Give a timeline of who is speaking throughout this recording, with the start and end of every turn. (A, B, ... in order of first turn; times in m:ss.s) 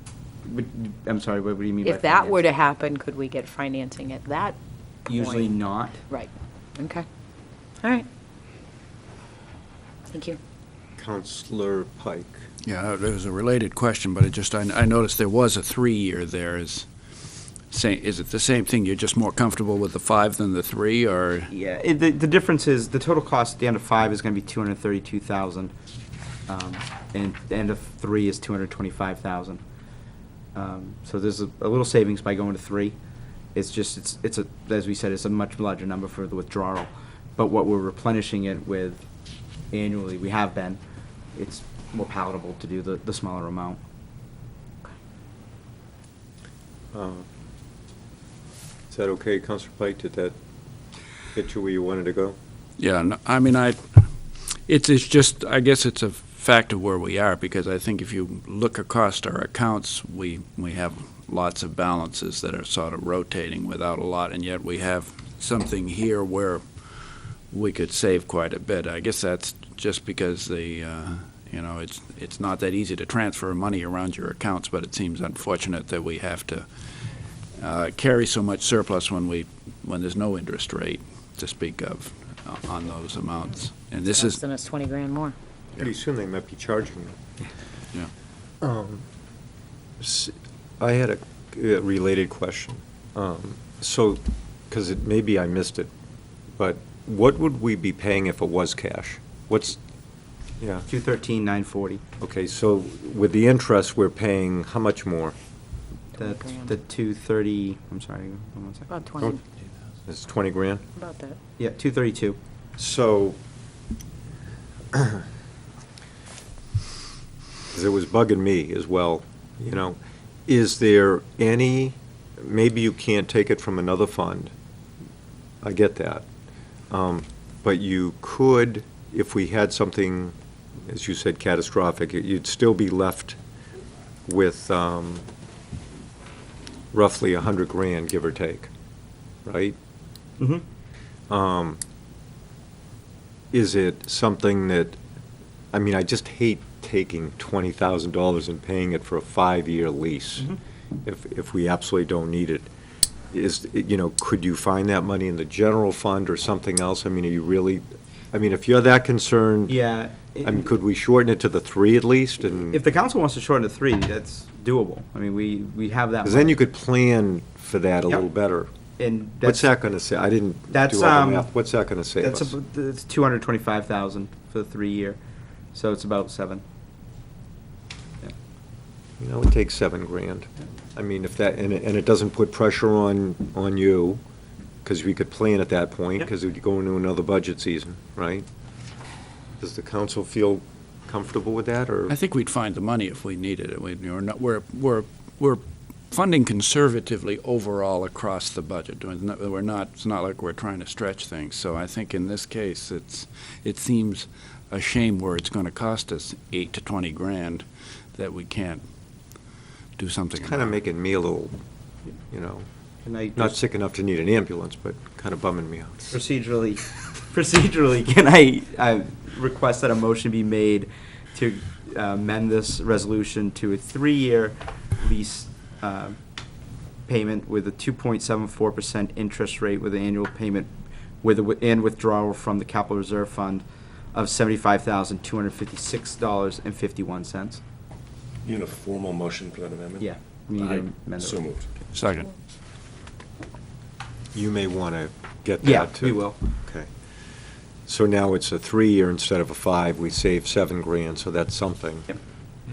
0:00.4-0:02.4 A
0:01.8-0:04.6 B
0:05.1-0:06.0 A
0:05.2-0:05.5 B
0:06.1-0:07.0 B
0:10.1-0:10.4 B
0:11.0-0:12.4 C
0:12.6-0:16.9 D
0:17.7-0:21.5 D
0:21.5-0:25.7 A
0:26.5-0:29.6 A
0:30.5-0:33.0 A
0:33.5-0:39.0 A
0:39.7-0:40.8 A
0:41.3-0:43.8 A
0:46.9-0:47.2 C
0:48.9-0:50.3 C
0:51.3-0:52.4 C
0:52.8-1:06.6 D
1:07.5-1:16.7 D
1:17.6-1:24.4 D
1:24.1-1:25.3 B
1:25.8-1:27.2 C
1:28.6-1:29.0 C
1:30.0-1:35.9 C
1:36.6-1:39.8 C
1:40.6-1:40.9 C
1:40.9-1:42.0 A
1:42.2-1:45.3 C
1:46.2-1:49.0 A
1:46.2-1:46.7 B
1:48.9-1:49.4 B
1:50.1-1:50.8 C
1:51.0-1:51.4 B
1:51.6-1:52.4 A
1:52.8-1:53.4 C
1:54.9-1:55.2 C
1:57.7-2:04.5 C
2:05.6-2:06.2 C
2:06.9-2:13.4 C
2:14.2-2:15.2 C
2:16.9-2:18.7 C
2:19.4-2:19.8 C
2:21.3-2:21.8 C
2:23.5-2:25.0 C
2:25.7-2:30.5 C
2:31.0-2:32.7 C
2:33.3-2:39.8 C
2:39.7-2:40.6 A
2:40.4-2:42.8 C
2:42.6-2:46.6 A
2:46.2-2:48.7 C
2:49.0-2:49.7 A
2:49.4-2:52.5 C
2:50.7-2:51.5 A
2:52.2-2:55.2 A
2:55.7-2:56.6 A
2:59.2-3:04.2 C
3:04.8-3:08.5 C
3:09.6-3:12.1 C
3:12.1-3:28.8 D
3:30.0-3:30.7 D
3:30.4-3:31.6 C
3:32.3-3:32.6 C
3:33.0-3:33.6 A
3:33.4-3:36.2 C
3:36.1-3:46.2 A
3:47.1-3:57.6 A
3:58.4-4:01.7 E
4:00.0-4:01.9 A
4:01.9-4:02.3 D
4:04.3-4:06.9 C
4:05.6-4:06.4 A
4:07.8-4:12.1 C